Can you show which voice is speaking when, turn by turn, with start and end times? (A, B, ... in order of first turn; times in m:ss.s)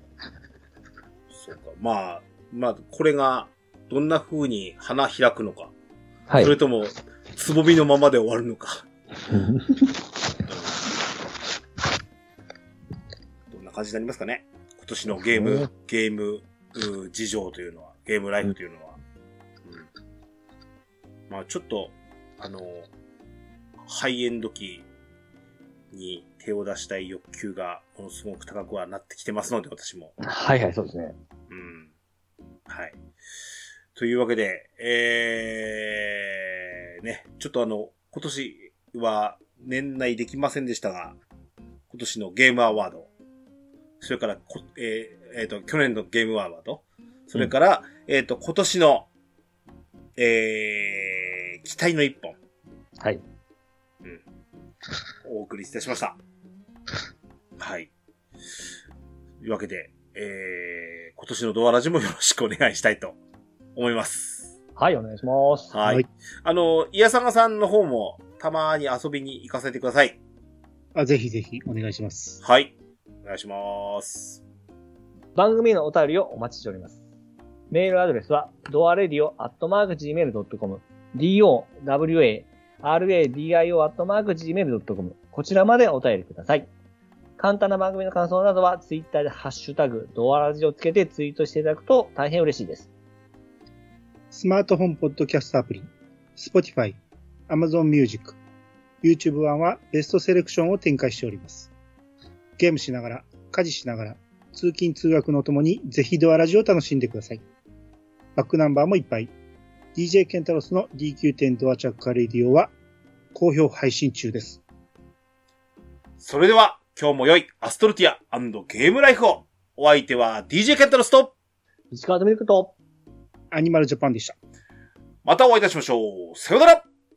0:01.3-0:05.7 A
0:06.3-0:06.6 B
0:06.4-0:08.9 A
0:09.3-0:09.9 B
0:10.5-0:10.8 A
0:13.5-0:19.0 A
0:15.3-0:15.7 B
0:21.3-0:22.9 A
0:23.8-0:24.9 A
0:25.9-0:30.2 A
0:30.2-0:31.2 B
0:31.5-0:31.9 A
0:32.7-0:33.0 A
0:34.0-0:41.2 A
0:41.9-0:43.1 A
0:44.0-0:49.1 A
0:50.2-0:52.4 A
0:55.2-0:56.2 A
0:57.6-0:57.9 A
0:59.4-1:03.2 A
1:03.8-1:04.5 A
1:04.8-1:05.8 B
1:05.7-1:10.2 A
1:11.0-1:12.4 C
1:12.4-1:14.4 A
1:15.4-1:17.0 B
1:17.7-1:26.7 B
1:27.4-1:32.9 B
1:34.3-1:37.0 C
1:37.5-1:38.4 C
1:39.0-1:41.7 C
1:42.6-1:47.4 C
1:48.4-1:49.3 C
1:50.0-1:52.7 C
1:53.3-1:54.6 C
1:56.2-2:01.3 A
2:01.9-2:02.8 B
2:03.5-2:04.4 C
2:05.2-2:06.8 A